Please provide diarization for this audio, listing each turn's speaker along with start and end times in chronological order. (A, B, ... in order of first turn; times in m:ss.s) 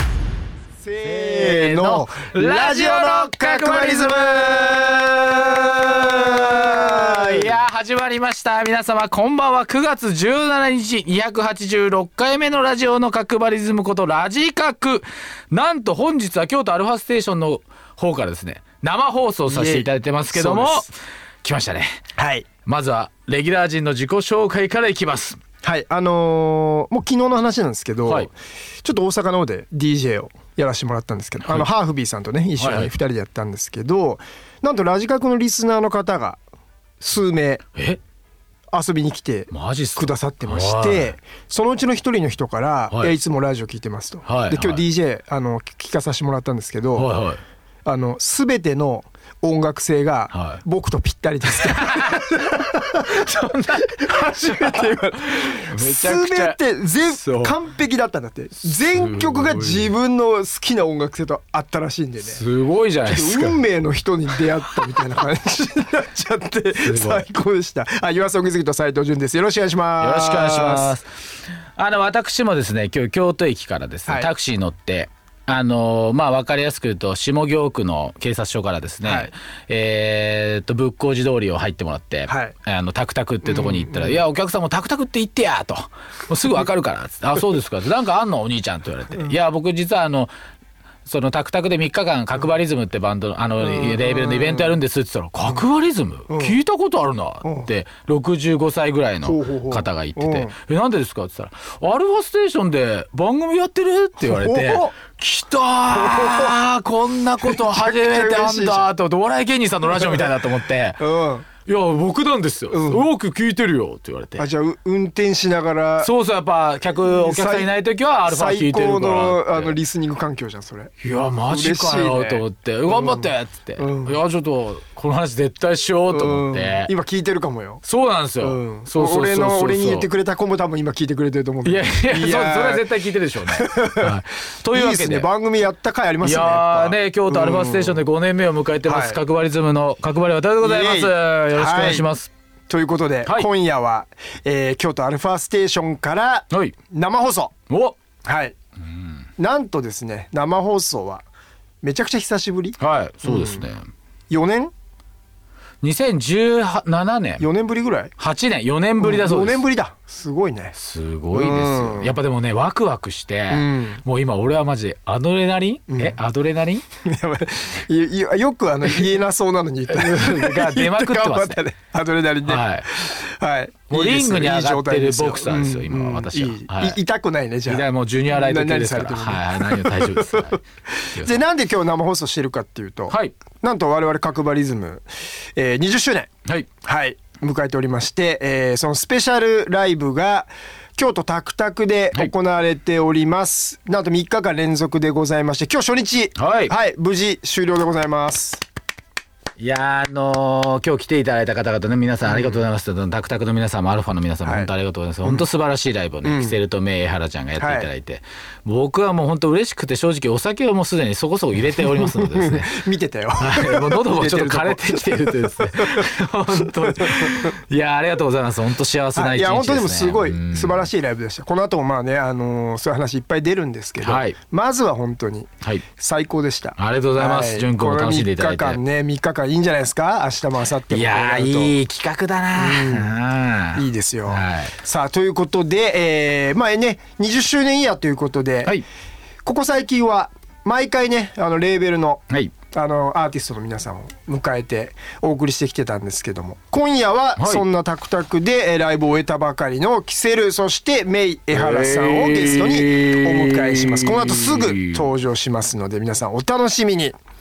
0:00.8-0:07.5 A
0:01.0-0:22.0 B
0:19.5-0:20.8 A
0:22.2-0:22.5 A
0:22.6-0:25.4 B
0:25.6-0:36.4 A
0:31.4-0:31.7 B
0:32.6-0:32.9 B
0:37.0-0:37.6 A
0:38.7-0:47.1 A
0:39.5-0:41.1 B
0:44.2-0:44.8 B
0:47.0-0:47.4 B
0:47.8-1:02.4 A
0:50.3-0:50.6 B
0:51.5-0:57.5 B
0:58.6-0:59.9 B
1:02.2-1:03.6 B
1:03.0-1:10.9 A
1:06.8-1:07.2 B
1:10.0-1:11.1 B
1:11.8-1:30.3 B
1:19.0-1:19.3 A
1:22.3-1:22.5 A
1:23.4-1:24.2 A
1:31.0-1:51.0 B
1:33.6-1:34.8 A
1:36.3-1:36.6 A
1:37.4-1:37.7 A
1:39.2-1:40.5 A
1:44.2-1:44.9 A
1:45.9-1:46.5 A
1:47.4-1:48.9 A
1:49.9-1:50.3 A
1:51.0-1:51.4 A
1:51.6-1:54.4 B
1:52.7-1:53.0 A
1:54.4-1:56.1 A
1:56.0-1:59.8 B
1:56.9-1:57.7 A
1:58.3-2:00.9 A
2:01.0-2:06.9 B
2:01.5-2:04.2 A
2:06.1-2:07.8 A
2:07.8-2:10.1 B
2:08.4-2:12.9 A
2:11.6-2:15.3 B
2:13.5-2:14.2 A
2:14.7-2:18.0 A
2:16.2-2:22.3 B
2:18.8-2:19.2 A
2:20.6-2:22.0 A
2:22.7-2:27.5 A
2:27.7-2:27.9 B
2:28.2-2:28.5 A
2:28.8-2:29.2 B
2:29.4-2:31.2 A
2:31.8-2:33.7 A
2:32.8-2:33.9 B
2:34.3-2:34.7 A
2:35.8-2:37.5 B
2:37.4-2:38.1 A
2:38.2-2:39.6 B
2:39.0-2:40.7 A
2:40.7-2:46.8 B
2:41.3-2:42.1 A
2:43.5-2:44.0 A
2:45.9-2:46.2 A
2:47.0-3:06.3 A
2:49.9-2:51.6 B
2:52.4-2:53.0 B
2:53.9-2:57.0 B
2:57.6-3:00.6 B
3:06.8-3:18.6 A
3:16.4-3:16.7 B
3:19.6-3:32.8 B
3:22.2-3:22.6 A
3:24.4-3:24.7 A
3:26.2-3:26.6 A
3:27.6-3:27.9 A
3:31.9-3:37.6 A
3:33.4-3:40.9 B
3:39.1-3:51.7 A
3:44.0-3:44.3 B
3:46.8-3:48.8 B
3:50.9-3:54.7 B
3:52.6-3:53.2 A
3:53.7-3:58.8 A
3:59.4-4:17.2 A
4:07.4-4:07.6 B
4:11.5-4:15.1 B